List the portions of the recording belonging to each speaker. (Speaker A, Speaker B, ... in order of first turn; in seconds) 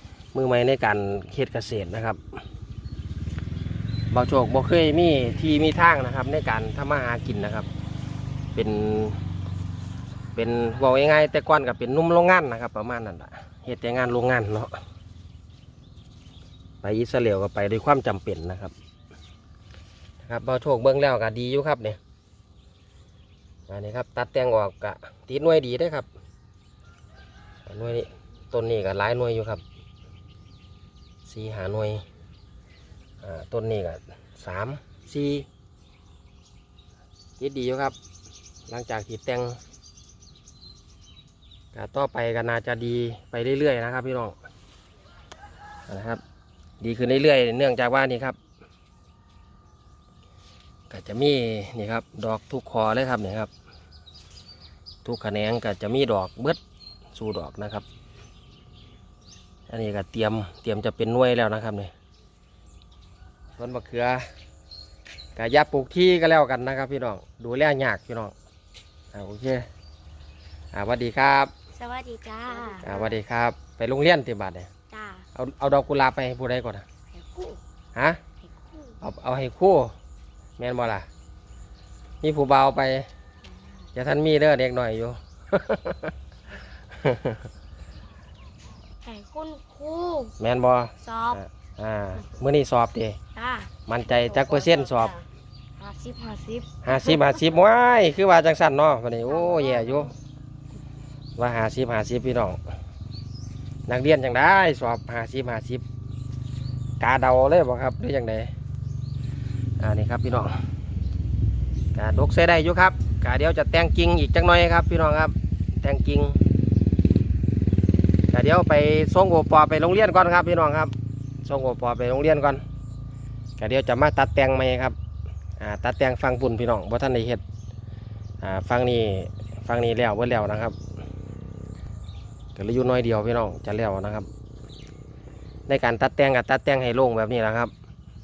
Speaker A: 0.3-2.2, 4.1-7.7, 8.6-9.2, 10.3-14.8, 16.8-18.7, 20.2-22.0, 23.7-26.1, 27.7-29.6, 31.2-32.0, 33.2-35.5, 37.4-38.0, 38.7-39.6, 41.7-44.4, 45.9-46.2, 46.8-48.4, 50.9-53.5, 55.0-56.6, 57.1-57.9, 59.7-61.9, 63.6-64.3, 65.4-68.3, 69.1-69.7, 70.7-71.5, 72.8-74.7, 75.3-76.8, 78.0-78.2, 79.0-79.9, 80.6-81.1, 82.2-83.1, 83.9-86.1, 86.9-87.4, 90.4-93.2, 93.9-95.2, 96.8-100.1, 101.4-102.6, 103.9-105.8, 107.0-108.5, 109.8-110.5, 111.9-116.4, 118.3-120.9, 121.4-122.6, 123.6-125.0, 125.6-127.4, 128.4-130.8, 132.6-134.3, 135.7-137.7
Speaker B: 71.8-73.1, 74.9-75.2, 77.2-77.6, 78.5-79.0, 89.0-90.3, 91.0-91.4, 93.3-93.7, 94.4-94.7, 95.8-97.4, 99.3-100.1